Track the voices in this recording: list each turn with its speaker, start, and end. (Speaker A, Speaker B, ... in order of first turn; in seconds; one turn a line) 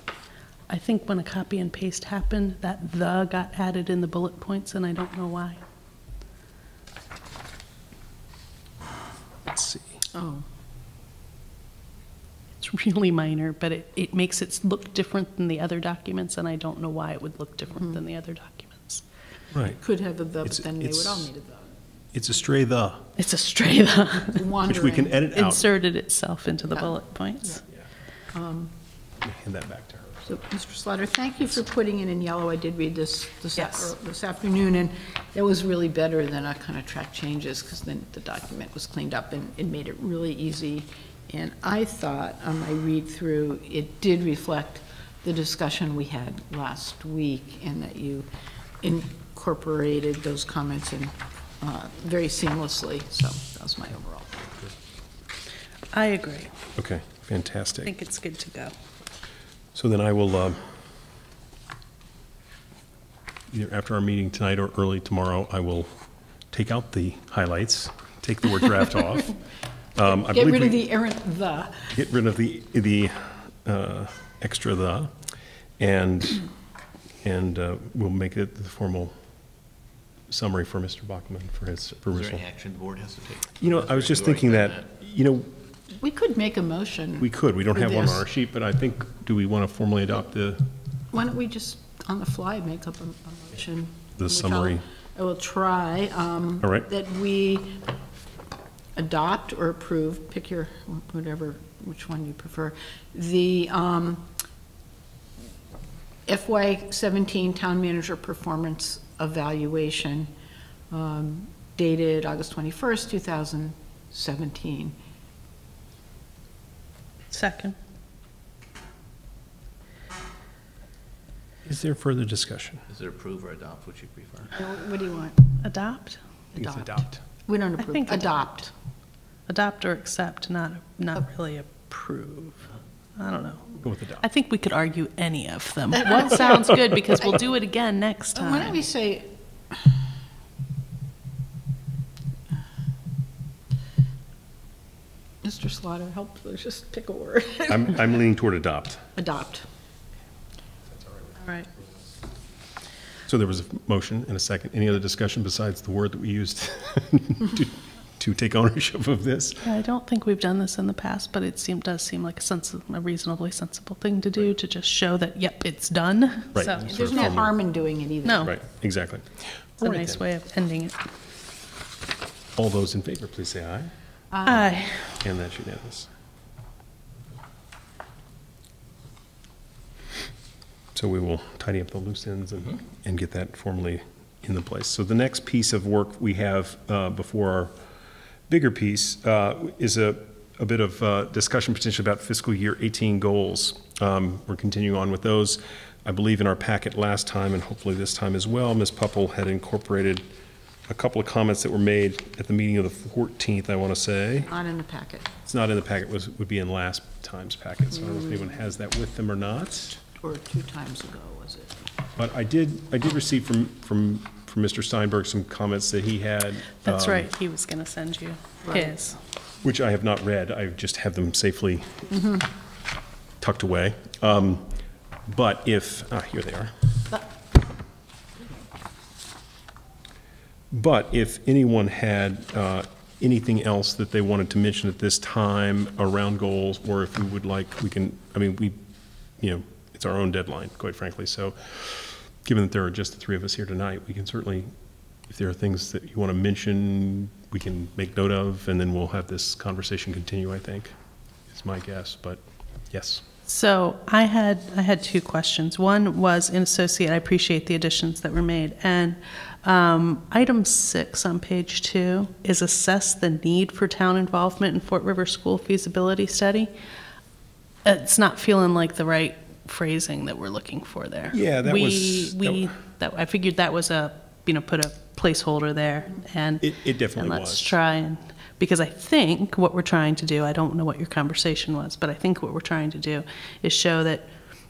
Speaker A: 0.7-5.6
Speaker B: 9.4-10.0
Speaker C: 10.1-10.4
Speaker A: 12.6-19.0
Speaker B: 19.5-19.8
Speaker C: 19.7-21.8
Speaker B: 20.4-21.3
Speaker B: 22.1-23.1
Speaker A: 23.2-24.4
Speaker C: 24.2-25.2
Speaker B: 24.6-25.7
Speaker A: 25.3-27.6
Speaker C: 28.3-28.7
Speaker B: 29.2-30.3
Speaker C: 30.3-48.3
Speaker A: 33.6-33.9
Speaker C: 48.8-54.4
Speaker A: 55.9-56.5
Speaker B: 56.8-57.9
Speaker A: 57.8-58.7
Speaker B: 59.7-60.7
Speaker B: 63.5-65.9
Speaker B: 66.5-69.4
Speaker B: 69.9-70.9
Speaker C: 70.2-71.9
Speaker B: 71.9-75.1
Speaker B: 75.8-76.5
Speaker B: 77.2-79.1
Speaker B: 80.3-82.4
Speaker D: 82.1-84.8
Speaker B: 83.6-85.5
Speaker C: 85.9-88.2
Speaker B: 87.2-90.7
Speaker C: 91.1-97.8
Speaker B: 94.2-94.8
Speaker C: 99.0-104.3
Speaker C: 106.3-110.3
Speaker C: 110.9-114.9
Speaker A: 117.3-117.8
Speaker B: 121.6-122.8
Speaker D: 122.9-124.6
Speaker C: 124.5-125.4
Speaker A: 125.6-126.2
Speaker B: 126.5-127.2
Speaker C: 126.6-128.7
Speaker A: 127.8-128.4
Speaker A: 129.5-138.8
Speaker B: 133.8-134.2
Speaker C: 138.3-139.9
Speaker C: 145.4-148.0
Speaker B: 147.7-149.0
Speaker C: 149.2-149.7
Speaker B: 153.3-159.6
Speaker A: 159.6-167.4
Speaker B: 166.5-167.5
Speaker C: 166.8-168.5
Speaker A: 168.2-168.5
Speaker B: 168.4-170.2
Speaker A: 169.8-171.0
Speaker B: 172.6-173.9
Speaker C: 174.3-174.8
Speaker A: 174.4-175.1
Speaker B: 175.2-176.1
Speaker B: 180.9-187.7
Speaker B: 188.5-200.3
Speaker B: 200.9-204.5
Speaker C: 204.4-205.3
Speaker B: 205.4-210.0
Speaker C: 210.2-211.8
Speaker B: 212.2-217.3
Speaker A: 216.8-219.2
Speaker C: 218.6-218.9
Speaker B: 219.6-222.0
Speaker C: 222.1-222.5
Speaker B: 223.4-224.7
Speaker B: 225.3-226.8
Speaker B: 230.7-238.8
Speaker B: 239.4-244.7
Speaker B: 245.3-250.9
Speaker B: 251.5-252.4
Speaker B: 252.9-253.2
Speaker A: 253.4-266.7
Speaker A: 267.8-284.3
Speaker B: 271.3-272.7
Speaker B: 276.6-277.8